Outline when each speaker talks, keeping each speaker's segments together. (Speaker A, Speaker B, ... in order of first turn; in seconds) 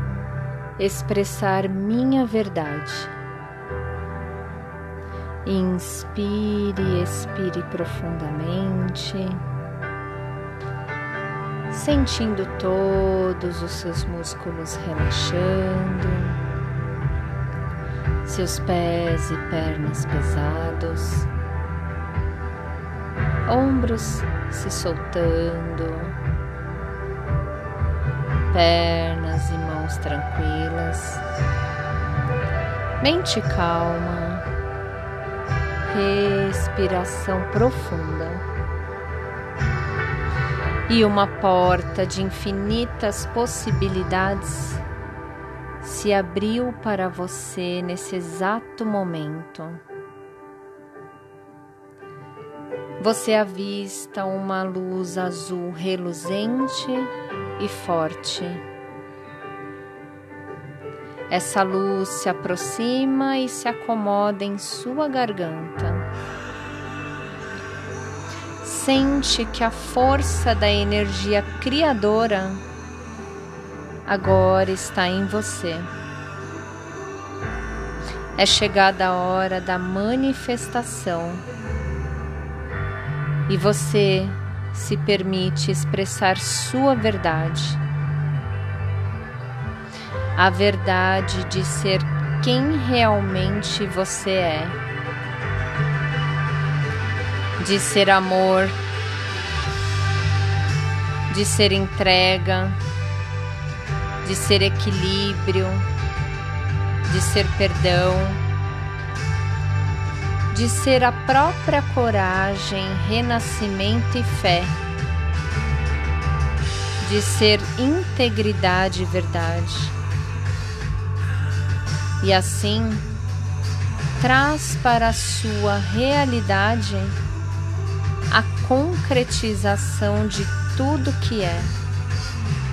Speaker A: 0.8-3.1, 5.4-9.4, 11.7-16.4, 18.2-21.3, 23.5-26.2, 28.5-31.2, 33.0-34.5, 35.8-38.5, 40.9-44.8, 45.8-49.8, 53.0-58.6, 61.3-66.1, 68.6-72.6, 74.1-75.9, 78.4-81.5, 83.5-87.8, 90.4-94.8, 97.6-98.8, 101.3-102.8, 104.2-105.9, 107.0-108.4, 110.5-114.8, 117.0-120.0, 122.2-123.1, 124.2-127.2, 128.3-131.8